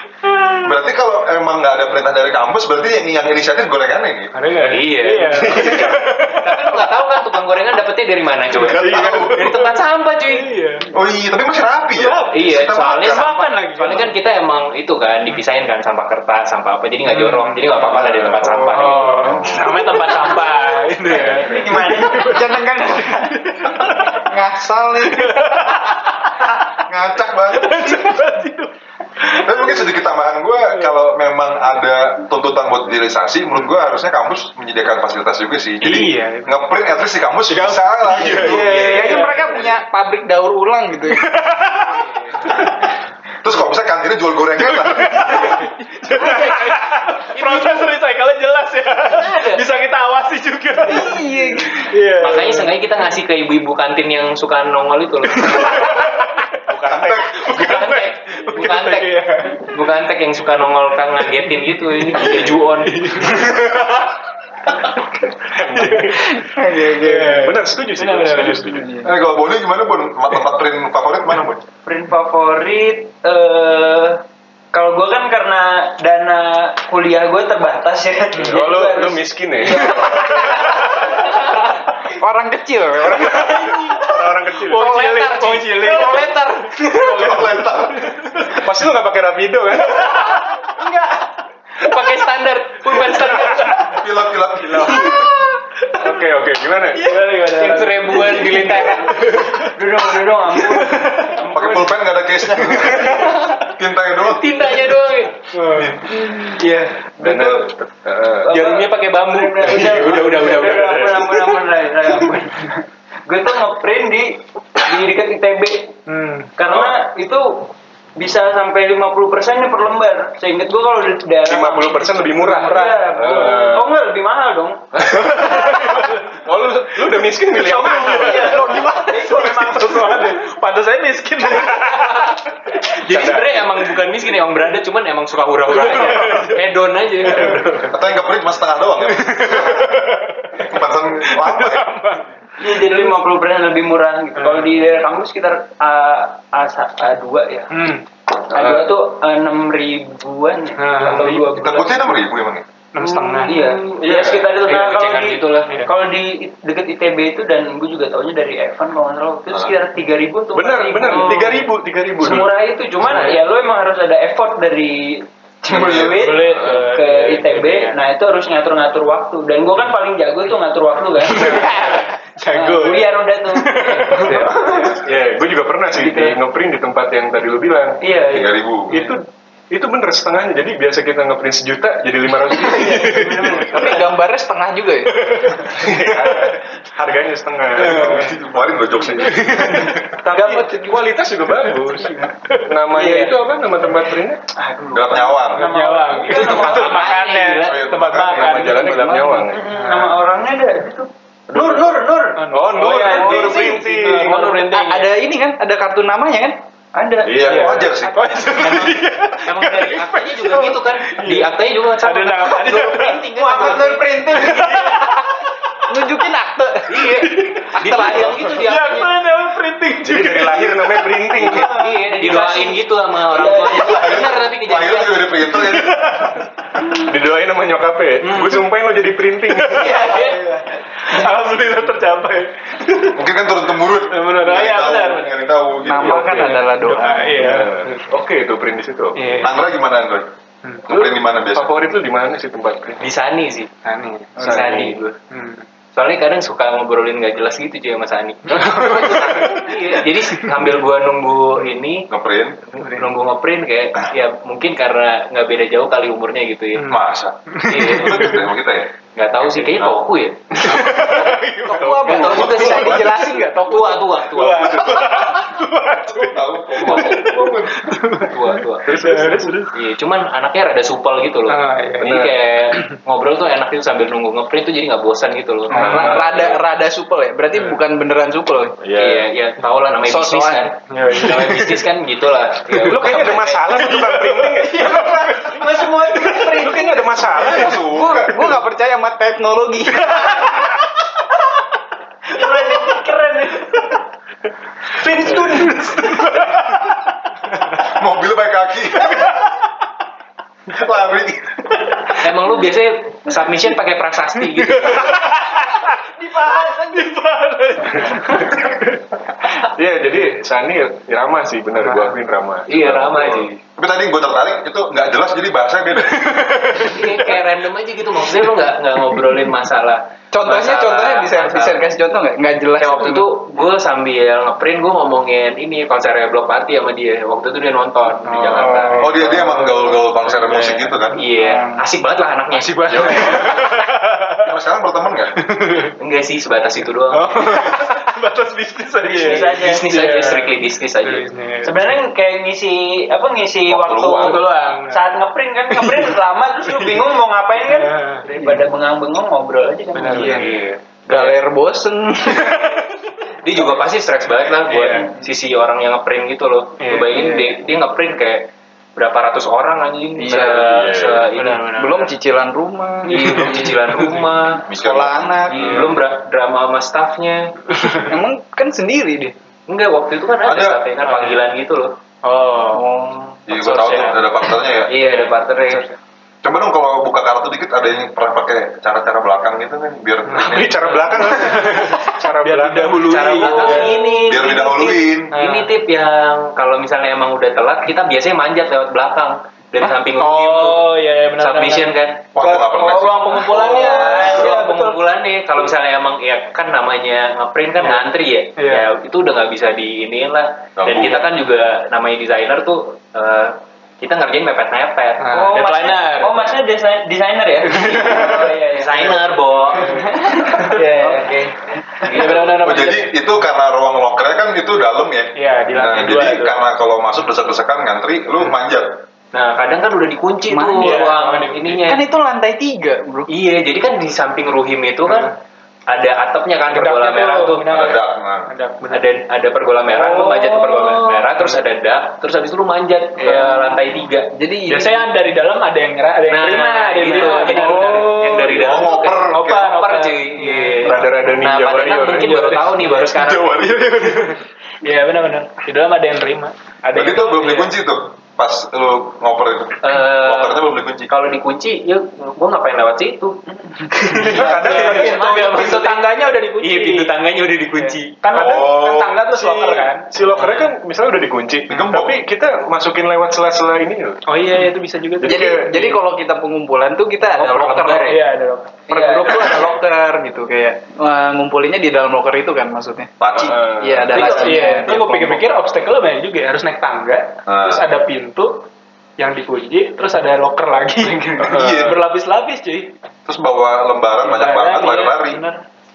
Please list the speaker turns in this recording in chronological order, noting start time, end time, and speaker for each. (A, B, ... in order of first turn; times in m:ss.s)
0:00.6-0:04.4 A
0:04.3-0:06.8 B
0:04.6-0:10.5 C
0:05.3-0:06.0 D
0:08.6-0:09.7 B
0:08.7-0:09.3 D
0:08.8-0:09.4 A
0:10.3-0:10.9 B
0:10.9-0:13.3 A
0:12.0-0:12.3 B
0:12.3-0:19.5 C
0:12.9-0:14.1 B
0:17.1-0:24.2 B
0:19.3-0:19.6 A
0:21.1-0:22.4 E
0:21.5-0:21.9 A
0:22.0-0:25.8 F
0:25.0-0:26.3 B
0:26.8-0:28.1 A
0:27.5-0:29.9 B
0:29.3-0:39.1 A
0:30.6-0:30.9 B
0:35.8-0:36.5 B
0:37.5-0:39.6 B
0:38.3-0:41.3 F
0:38.5-0:39.4 C
0:41.1-0:42.8 B
0:41.7-0:42.5 C
0:43.4-0:45.6 A
0:44.6-0:52.8 B
0:47.3-0:47.8 C
0:49.1-0:49.6 C
0:50.8-0:51.8 F
0:52.1-0:56.0 C
0:55.3-0:59.8 B
0:56.9-0:57.3 A
0:57.0-1:03.5 C
1:01.8-1:04.1 B
1:05.5-1:06.4 D
1:05.6-1:08.8 B
1:06.3-1:07.5 F
1:07.3-1:09.1 D
1:08.7-1:09.0 F
1:09.0-1:11.6 A
1:11.8-1:14.2 E
1:14.7-1:21.0 E
1:18.4-1:20.4 D
1:20.0-1:21.3 B
1:22.0-1:23.9 F
1:23.4-1:24.0 C
1:23.5-1:24.9 D
1:23.5-1:23.8 B
1:24.5-1:28.7 B
1:24.7-1:27.1 C
1:27.0-1:28.2 A
1:28.4-1:30.4 D
1:30.2-1:30.7 B
1:31.8-1:33.9 C
1:33.1-1:33.8 B
1:33.7-1:35.3 A
1:34.7-1:35.1 D
1:34.8-1:35.2 B
1:35.9-1:37.1 D
1:36.9-1:39.8 B
1:37.3-1:39.4 C
1:39.7-1:41.4 E
1:40.9-1:42.0 B
1:41.4-1:44.8 A
1:42.5-1:43.5 B
1:44.2-1:45.4 C
1:45.5-1:46.5 B
1:45.8-1:46.1 A
1:46.5-1:47.3 E
1:47.1-1:48.5 D
1:48.4-1:51.1 C
1:48.4-1:56.0 E
1:49.6-1:51.6 D
1:56.1-1:56.5 B
1:56.6-2:05.8 E
2:01.4-2:03.9 D
2:02.4-2:03.5 B
2:04.9-2:08.8 D
2:05.1-2:06.4 B
2:07.6-2:10.4 E
2:07.9-2:12.4 B
2:11.5-2:12.0 D
2:12.8-2:17.7 C
2:13.0-2:13.6 D
2:15.7-2:16.6 B
2:17.2-2:17.9 B
2:17.8-2:20.1 A
2:19.0-2:22.3 B
2:20.6-2:21.9 A
2:22.6-2:27.7 E
2:24.4-2:24.7 B
2:27.7-2:28.0 B
2:28.5-2:32.2 E
2:28.5-2:28.8 D
2:30.8-2:31.4 B
2:31.3-2:32.6 A
2:32.9-2:33.6 B
2:33.0-2:34.3 D
2:33.4-2:52.0 E
2:34.0-2:35.8 C
2:40.5-2:42.6 D
2:43.0-2:43.4 B
2:45.7-2:46.4 A
2:45.9-2:48.0 B
2:51.2-2:54.8 B
2:51.4-2:51.8 D
2:52.5-2:55.0 E
2:54.3-2:58.0 D
2:55.9-2:56.4 E
2:58.0-2:58.6 E
2:58.3-2:58.9 A
2:58.9-2:59.2 B
2:58.9-3:03.4 D
3:02.6-3:04.1 E
3:02.9-3:03.3 B
3:03.6-3:05.2 F
3:05.2-3:06.5 B
3:05.6-3:08.3 D
3:07.8-3:10.0 A
3:07.9-3:08.3 B
3:09.3-3:10.6 B
3:10.2-3:14.4 D
3:12.5-3:13.3 B
3:14.5-3:17.1 E
3:14.9-3:16.8 A
3:15.5-3:19.1 B
3:16.2-3:17.8 C
3:17.6-3:18.6 A
3:18.3-3:19.6 D
3:18.7-3:19.4 F
3:19.5-3:24.4 E
3:19.7-3:20.2 B
3:21.5-3:24.6 D
3:22.4-3:25.1 B
3:23.0-3:23.6 F
3:24.4-3:26.6 F
3:26.9-3:27.5 E
3:27.3-3:27.9 D
3:27.3-3:29.0 A
3:27.4-3:35.3 B
3:28.5-3:33.9 C
3:32.7-3:35.0 E
3:33.4-3:35.1 F
3:35.8-3:37.2 F
3:36.9-3:39.1 C
3:37.3-3:41.2 B
3:37.8-3:38.5 F
3:40.0-3:41.9 D
3:41.3-3:44.3 E
3:41.4-3:45.5 C
3:43.7-3:46.0 A
3:45.6-3:46.5 B
3:46.9-3:50.0 D
3:48.3-3:48.5 B
3:49.5-3:50.4 B
3:49.8-3:50.4 C
3:49.8-3:50.6 E
3:51.0-3:53.1 B
3:53.1-3:56.6 A
3:54.1-3:58.1 B
3:55.8-3:57.5 F
3:57.3-3:59.4 D
3:59.1-3:59.6 B
3:59.4-4:00.3 A
4:00.8-4:01.8 A
4:00.9-4:03.0 D
4:03.0-4:03.7 C
4:03.8-4:04.5 B
4:04.4-4:05.0 D
4:04.4-4:05.2 C
4:05.3-4:05.6 B
4:05.9-4:12.1 C
4:08.5-4:09.5 D
4:08.6-4:09.7 B
4:12.1-4:12.6 A
4:12.8-4:13.1 B
4:12.8-4:16.9 C
4:16.8-4:18.9 A
4:17.5-4:18.4 B
4:17.7-4:18.4 C
4:19.1-4:21.3 C
4:20.5-4:23.5 B
4:21.6-4:24.1 F
4:22.0-4:25.2 C
4:22.5-4:23.2 A
4:24.3-4:29.7 B
4:24.4-4:27.9 A
4:26.8-4:27.2 C
4:28.2-4:28.8 C
4:28.8-4:29.7 D
4:29.7-4:36.1 C
4:31.5-4:32.9 B
4:32.0-4:32.3 D
4:35.7-4:36.2 B
4:35.7-4:36.6 D
4:35.7-4:38.8 F
4:38.8-4:39.2 D
4:38.9-4:43.9 C
4:40.0-4:40.7 F
4:40.9-4:41.8 B
4:42.7-4:45.0 D
4:42.8-4:45.9 B
4:44.6-4:47.5 E
4:46.3-4:48.5 D
4:46.3-4:50.6 F
4:47.5-4:48.3 A
4:52.3-4:54.0 E
4:54.9-4:56.5 E
4:56.3-4:56.8 B
4:57.8-4:59.4 A
5:00.7-5:02.0 A
5:02.2-5:05.2 C
5:04.5-5:08.8 B
5:06.2-5:07.1 F
5:09.6-5:13.5 D
5:11.8-5:12.2 B
5:12.7-5:13.6 C
5:13.8-5:16.9 A
5:16.0-5:17.4 B
5:16.8-5:21.9 C
5:20.3-5:23.5 F
5:22.8-5:29.1 C
5:28.2-5:31.2 B
5:29.0-5:31.2 A
5:31.2-5:33.5 C
5:32.5-5:34.5 B
5:32.9-5:33.5 A
5:34.4-5:35.3 A
5:35.5-5:35.9 B
5:36.0-5:37.7 C
5:37.1-5:41.9 B
5:39.1-5:39.9 E
5:39.2-5:41.3 C
5:41.6-5:50.6 E
5:43.7-5:44.4 A
5:44.2-5:45.0 B
5:45.7-5:46.2 B
5:46.7-5:47.0 B
5:47.7-5:48.3 B
5:49.9-5:51.3 B
5:50.1-5:50.4 F
5:51.1-5:52.7 F
5:53.4-6:01.7 C
5:54.7-5:55.1 B
5:56.8-5:57.2 B
5:57.1-5:57.6 F
6:00.2-6:00.8 F
6:00.7-6:01.2 D
6:01.3-6:02.1 B
6:01.7-6:03.7 F
6:03.0-6:04.6 C
6:03.0-6:04.3 B
6:04.7-6:05.6 A
6:04.7-6:05.8 F
6:05.5-6:07.5 C
6:05.6-6:05.9 B
6:07.8-6:08.0 B
6:08.0-6:09.3 F
6:09.7-6:11.9 C
6:10.4-6:10.8 A
6:11.0-6:11.4 B
6:12.2-6:12.8 B
6:12.7-6:13.4 F
6:13.5-6:14.9 A
6:13.5-6:14.2 B
6:14.9-6:15.9 C
6:15.0-6:16.0 B
6:16.4-6:21.2 A
6:20.3-6:24.2 B
6:20.3-6:23.5 D
6:23.0-6:32.2 C
6:24.0-6:25.3 A
6:25.3-6:25.7 B
6:29.8-6:34.6 B
6:32.3-6:33.3 A
6:32.4-6:34.9 E
6:33.7-6:45.4 C
6:38.6-6:38.9 B
6:40.8-6:41.2 A
6:45.2-6:46.3 B
6:45.3-6:49.3 E
6:47.7-6:48.5 B
6:48.1-6:52.6 C
6:49.7-6:50.7 B
6:50.2-6:51.2 E
6:50.4-6:51.5 F
6:52.0-6:53.1 B
6:52.3-6:59.0 A
6:55.3-6:56.6 B
6:59.3-7:02.0 C
7:00.5-7:01.1 F
7:00.8-7:02.0 B
7:01.8-7:03.3 F
7:03.3-7:05.3 C
7:05.0-7:05.3 B
7:05.9-7:07.8 C
7:06.7-7:09.1 B
7:07.7-7:08.5 A
7:08.9-7:14.3 C
7:10.7-7:11.5 B
7:14.3-7:15.1 F
7:14.7-7:21.1 B
7:16.3-7:23.8 C
7:17.5-7:18.3 D
7:18.4-7:19.7 A
7:20.8-7:22.4 D
7:22.0-7:27.7 B
7:26.9-7:31.1 A
7:29.8-7:33.4 C
7:34.0-7:38.2 C
7:34.1-7:37.1 B
7:34.1-7:35.2 D
7:35.4-7:35.8 E
7:37.8-7:40.1 B
7:38.3-7:44.2 D
7:38.4-7:38.8 A
7:41.7-7:42.1 A
7:44.3-7:45.6 B
7:45.2-7:45.9 D
7:45.2-7:48.2 F
7:47.2-7:48.2 C
7:48.0-7:49.7 B
7:48.9-7:55.0 F
7:53.2-7:53.6 A
7:53.4-7:55.4 D
7:54.1-7:58.6 B
7:57.5-7:57.8 A
7:59.2-8:02.9 B
8:01.4-8:02.0 A
8:03.3-8:05.4 A
8:04.2-8:05.6 B